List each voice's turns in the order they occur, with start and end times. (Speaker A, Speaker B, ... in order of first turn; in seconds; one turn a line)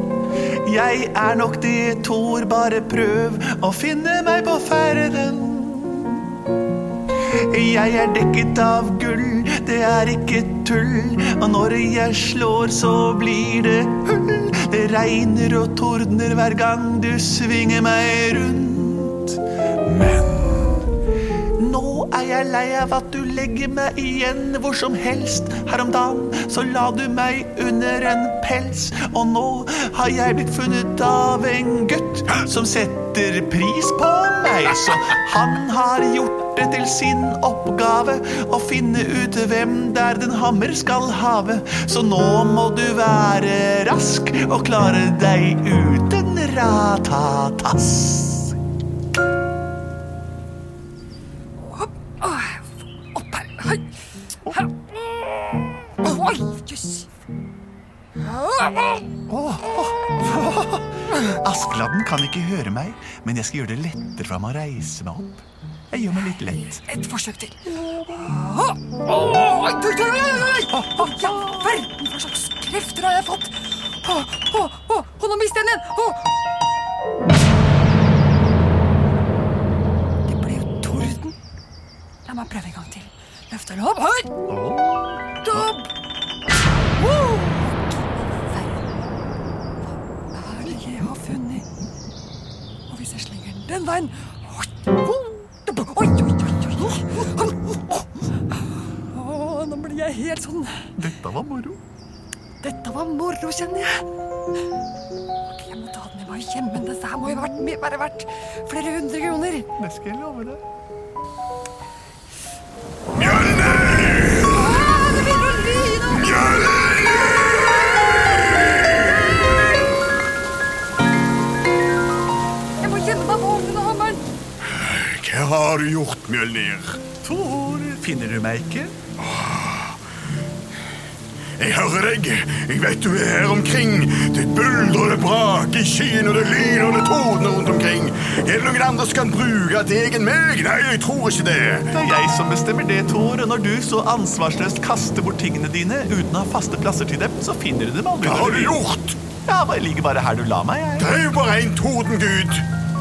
Speaker A: 0.5-6.4
Speaker A: 7.2-20.8
Speaker A: 21.5-48.6
Speaker B: 51.7-53.9
Speaker B: 56.0-57.1
Speaker B: 58.2-59.0
Speaker A: 59.3-66.8
Speaker B: 66.9-76.3
Speaker A: 70.7-71.7
Speaker B: 80.2-81.3
Speaker B: 82.2-84.3
Speaker A: 84.5-85.7
Speaker B: 85.4-85.9
Speaker B: 87.0-87.8
Speaker B: 88.3-88.8
Speaker B: 90.3-91.7
Speaker B: 92.9-98.0
Speaker B: 99.1-100.9
Speaker A: 101.0-101.8
Speaker B: 102.6-104.0
Speaker B: 105.5-109.7
Speaker A: 109.8-110.6
Speaker C: 113.1-115.0
Speaker B: 114.5-116.3
Speaker C: 116.0-119.7
Speaker B: 122.8-124.2
Speaker C: 124.6-127.0
Speaker A: 127.2-129.0
Speaker C: 129.2-130.0
Speaker C: 131.6-142.0
Speaker A: 141.9-148.8
Speaker C: 148.2-149.2
Speaker A: 149.4-151.1
Speaker C: 151.0-152.7